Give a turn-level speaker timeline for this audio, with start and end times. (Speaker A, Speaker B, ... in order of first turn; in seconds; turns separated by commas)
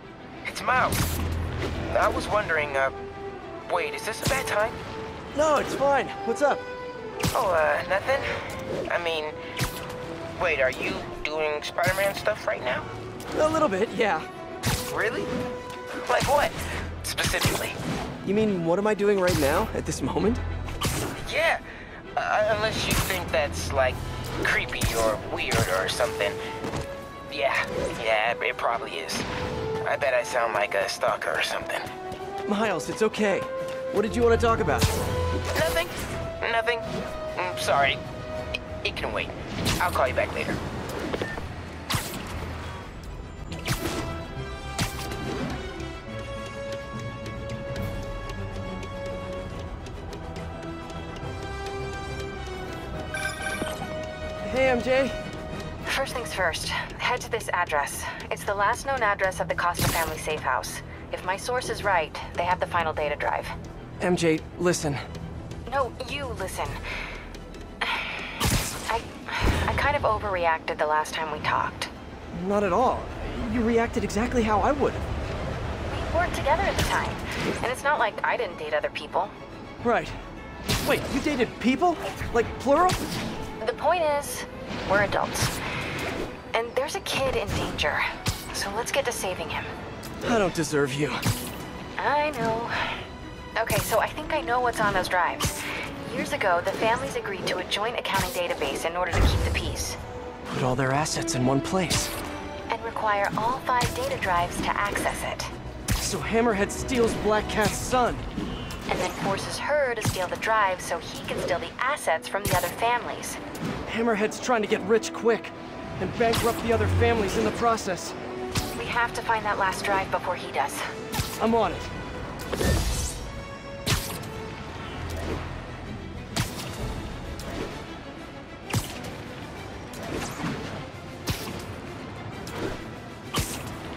Speaker A: 0.5-1.0, Speaker A: 1.9-3.0, Speaker A: 3.7-4.8, Speaker B: 5.3-6.6, Speaker A: 7.3-9.4, Speaker A: 10.4-12.9, Speaker B: 13.3-14.3, Speaker A: 14.9-15.3, Speaker A: 16.0-17.8, Speaker B: 18.2-20.4, Speaker A: 21.2-21.6, Speaker A: 22.2-26.4, Speaker A: 27.3-29.2, Speaker A: 29.8-31.9, Speaker B: 32.5-34.9, Speaker A: 35.5-38.0, Speaker A: 38.8-40.6, Speaker B: 54.4-55.2, Speaker C: 55.9-63.5, Speaker B: 64.0-65.0, Speaker C: 65.7-66.8, Speaker C: 68.9-71.9, Speaker B: 72.3-75.0, Speaker C: 75.9-79.3, Speaker B: 79.8-80.2, Speaker B: 80.8-83.0, Speaker C: 83.6-85.5, Speaker C: 86.5-88.0, Speaker C: 88.5-89.7, Speaker B: 90.2-91.2, Speaker C: 92.0-92.7, Speaker C: 93.6-95.5, Speaker C: 96.0-100.0, Speaker B: 100.5-102.1, Speaker C: 102.7-105.5, Speaker B: 106.0-108.3, Speaker C: 108.9-113.4, Speaker B: 113.9-118.2, Speaker C: 118.8-120.8, Speaker B: 121.4-121.9